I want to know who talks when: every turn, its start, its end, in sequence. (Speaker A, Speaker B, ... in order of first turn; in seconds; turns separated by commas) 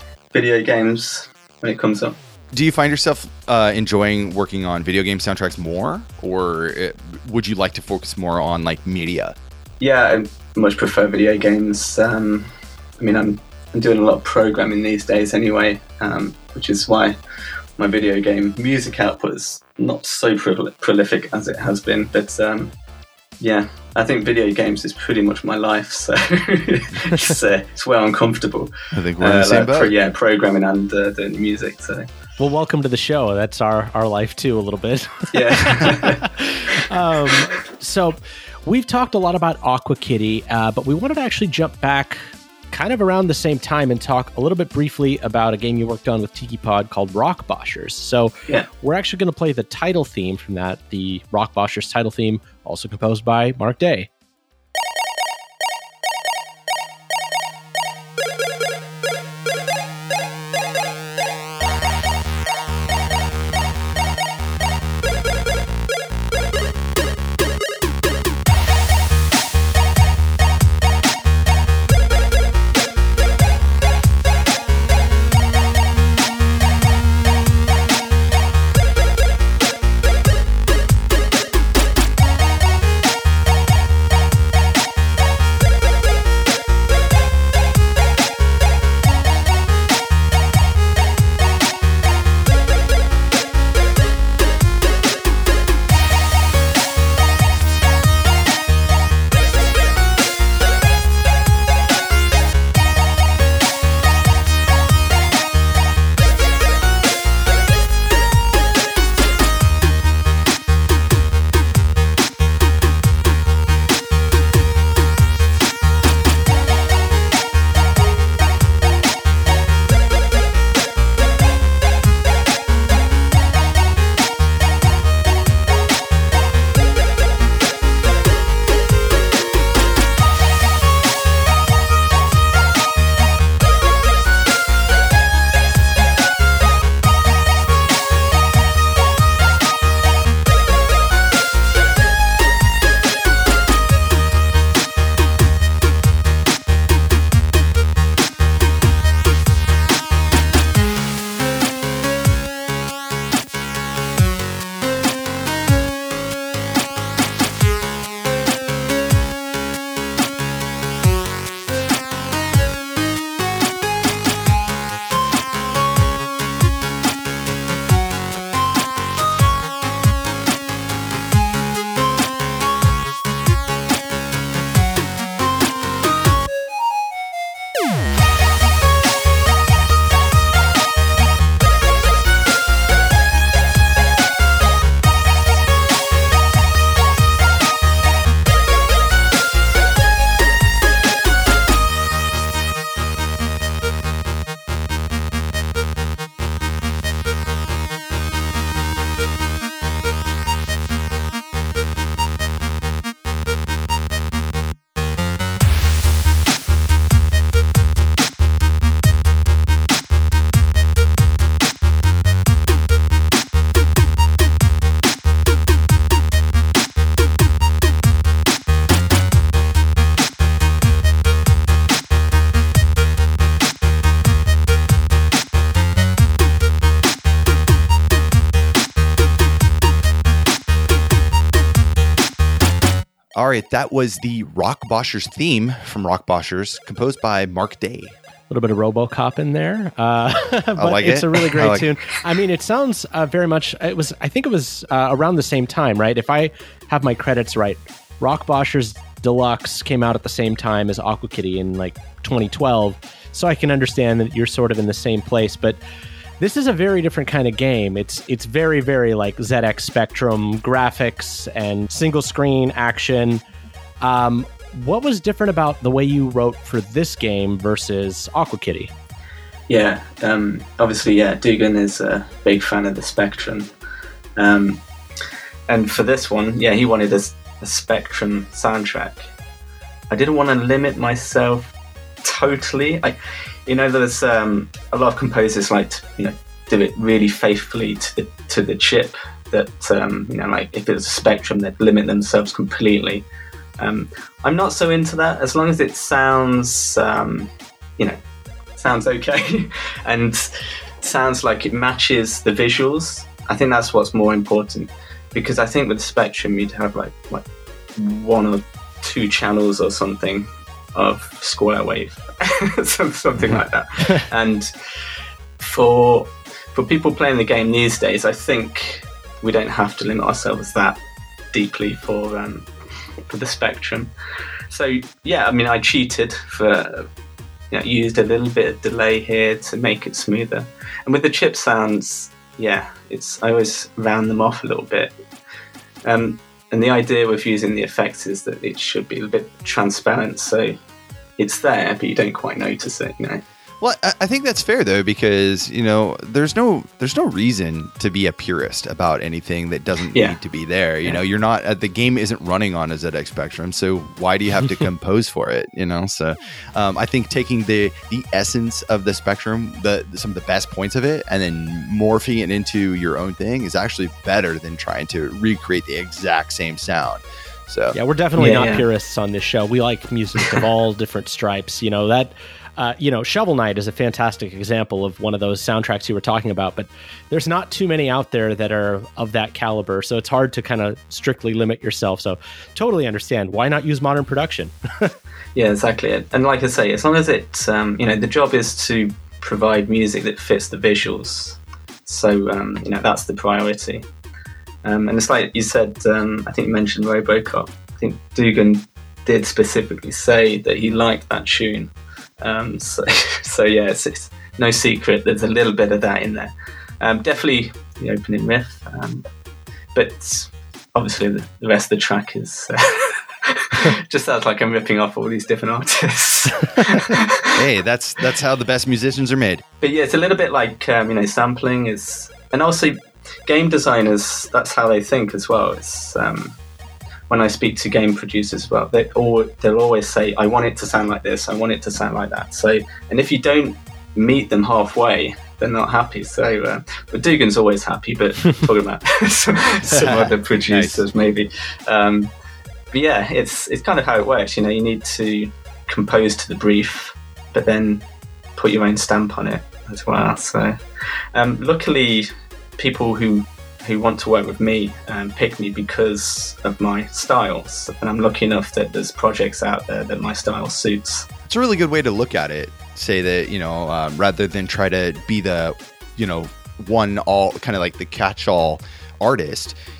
Speaker A: 0.3-2.2, Speaker B: 2.5-9.4, Speaker A: 9.8-17.2, Speaker A: 17.8-22.7, Speaker A: 23.4-32.1, Speaker B: 28.9-29.9, Speaker C: 32.4-42.2, Speaker A: 35.3-36.3, Speaker C: 42.7-54.1, Speaker B: 233.4-238.2, Speaker C: 238.5-255.8, Speaker B: 240.8-241.9, Speaker C: 256.4-263.4, Speaker C: 264.0-268.9, Speaker A: 269.7-273.7, Speaker A: 274.4-274.8, Speaker A: 275.7-279.3, Speaker A: 280.1-293.3, Speaker A: 293.8-298.2, Speaker A: 298.8-307.4, Speaker A: 308.0-315.0, Speaker A: 315.6-321.0, Speaker A: 321.5-322.7, Speaker A: 323.3-324.1, Speaker A: 324.7-327.1, Speaker A: 327.7-335.1, Speaker A: 336.1-340.8, Speaker A: 341.4-343.4, Speaker B: 343.8-368.0, Speaker C: 367.9-385.1, Speaker A: 368.4-368.9, Speaker A: 385.6-394.1, Speaker A: 394.8-409.3, Speaker A: 409.9-417.6, Speaker B: 417.5-419.6, Speaker A: 419.8-426.6, Speaker A: 427.3-442.3, Speaker B: 439.8-441.1, Speaker A: 442.9-448.1, Speaker A: 448.6-450.8, Speaker A: 451.3-461.3, Speaker B: 461.5-469.8